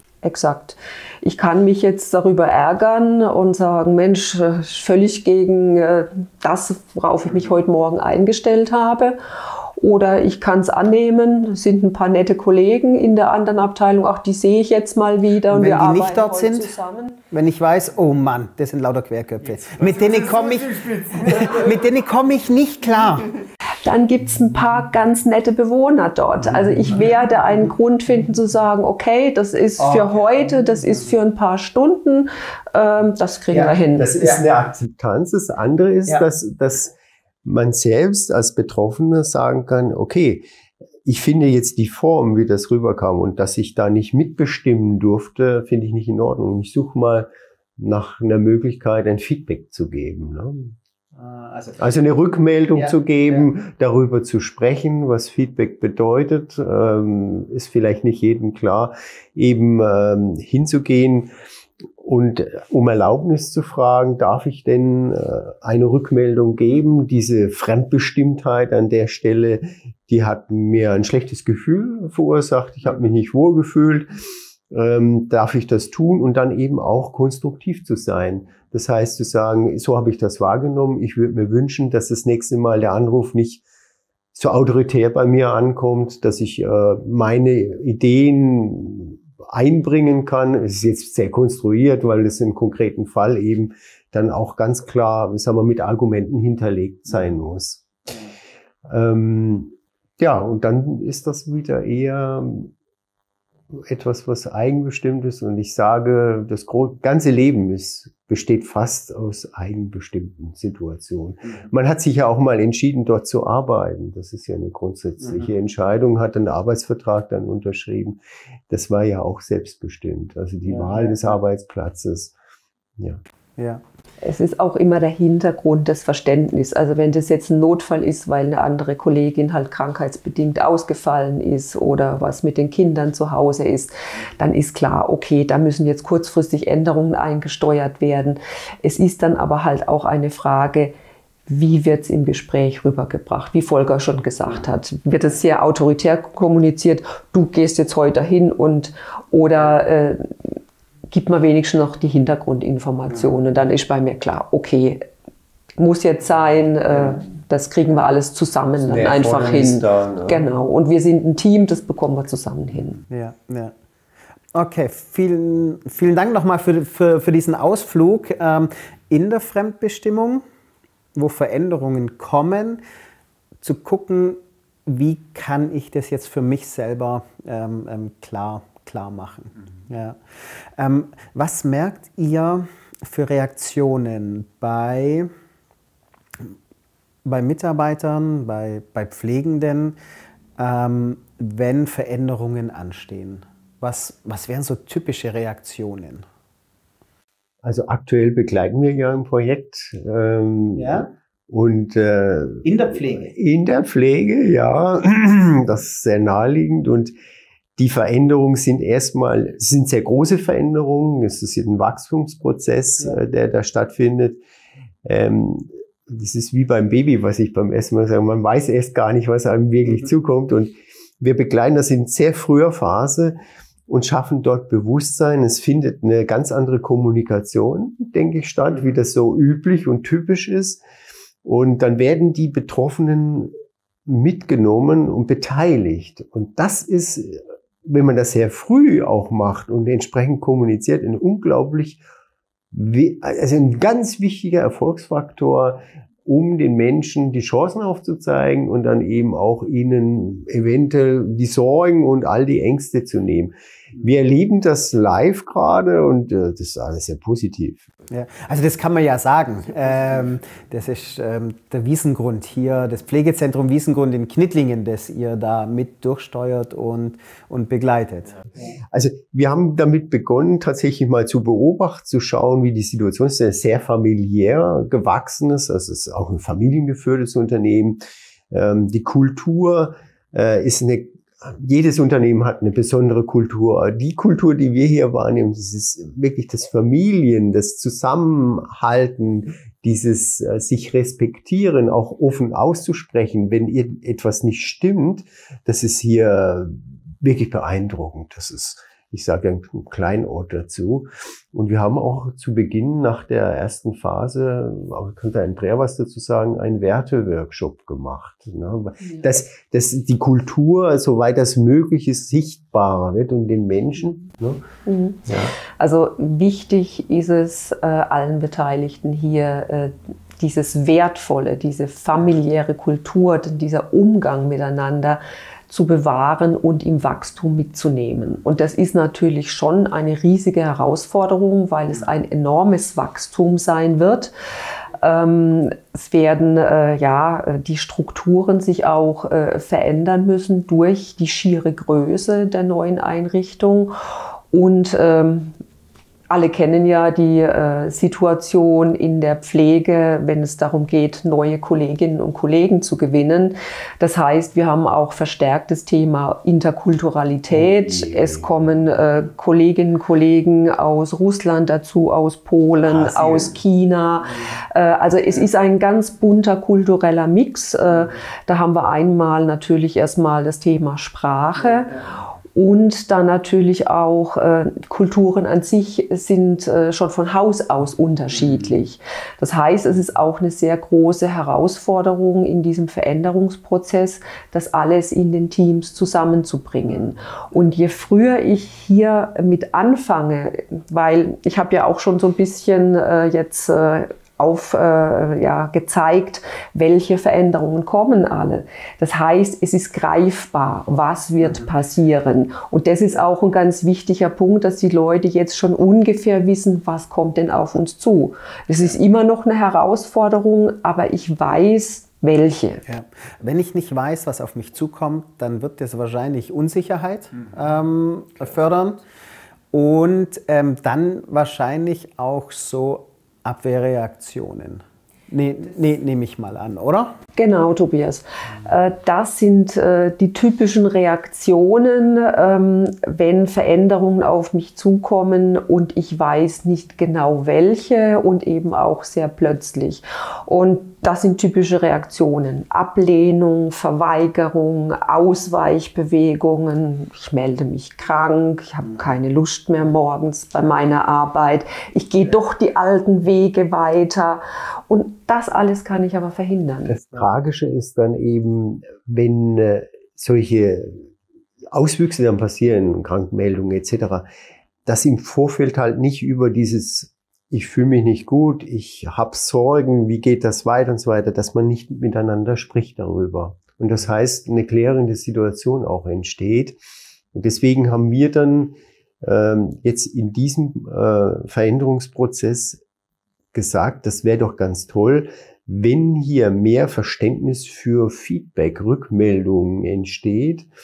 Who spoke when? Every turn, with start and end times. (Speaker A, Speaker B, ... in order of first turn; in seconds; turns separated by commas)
Speaker A: 0.2-9.2, Speaker A: 9.8-17.2, Speaker B: 15.5-16.7, Speaker B: 17.3-23.3, Speaker C: 19.6-21.7, Speaker A: 23.8-34.2, Speaker B: 29.8-30.1, Speaker C: 34.0-40.5, Speaker C: 41.0-50.8, Speaker B: 51.2-51.8, Speaker C: 51.8-61.3, Speaker C: 62.0-74.1, Speaker C: 74.7-83.6, Speaker C: 84.3-97.9, Speaker C: 98.9-102.7, Speaker C: 103.7-118.2, Speaker C: 118.7-122.3, Speaker B: 123.6-123.8, Speaker A: 124.2-140.9, Speaker A: 141.5-150.3, Speaker A: 151.1-155.0, Speaker A: 155.8-163.0, Speaker C: 158.9-160.5, Speaker B: 163.1-163.7, Speaker B: 164.5-170.4, Speaker B: 171.1-172.8, Speaker B: 173.6-180.2, Speaker B: 180.8-185.3, Speaker B: 187.2-189.9, Speaker B: 190.6-196.2, Speaker C: 197.6-207.1, Speaker B: 200.7-201.1, Speaker B: 202.6-203.3, Speaker C: 207.8-214.4, Speaker C: 215.0-223.3, Speaker C: 223.9-230.8, Speaker C: 231.4-233.5, Speaker C: 234.1-242.0, Speaker C: 242.7-257.9, Speaker B: 258.1-268.4, Speaker C: 268.9-278.0, Speaker C: 278.5-314.6, Speaker A: 314.9-334.3, Speaker C: 315.2-315.5, Speaker A: 335.0-343.9, Speaker A: 344.5-345.6, Speaker A: 346.3-372.0, Speaker C: 357.6-358.4, Speaker C: 363.2-363.4, Speaker A: 372.5-412.8, Speaker B: 412.9-419.0, Speaker B: 419.7-427.1, Speaker A: 427.4-457.0, Speaker C: 456.9-461.0, Speaker C: 461.7-464.2, Speaker C: 464.9-476.8, Speaker C: 477.3-482.8, Speaker C: 483.5-490.7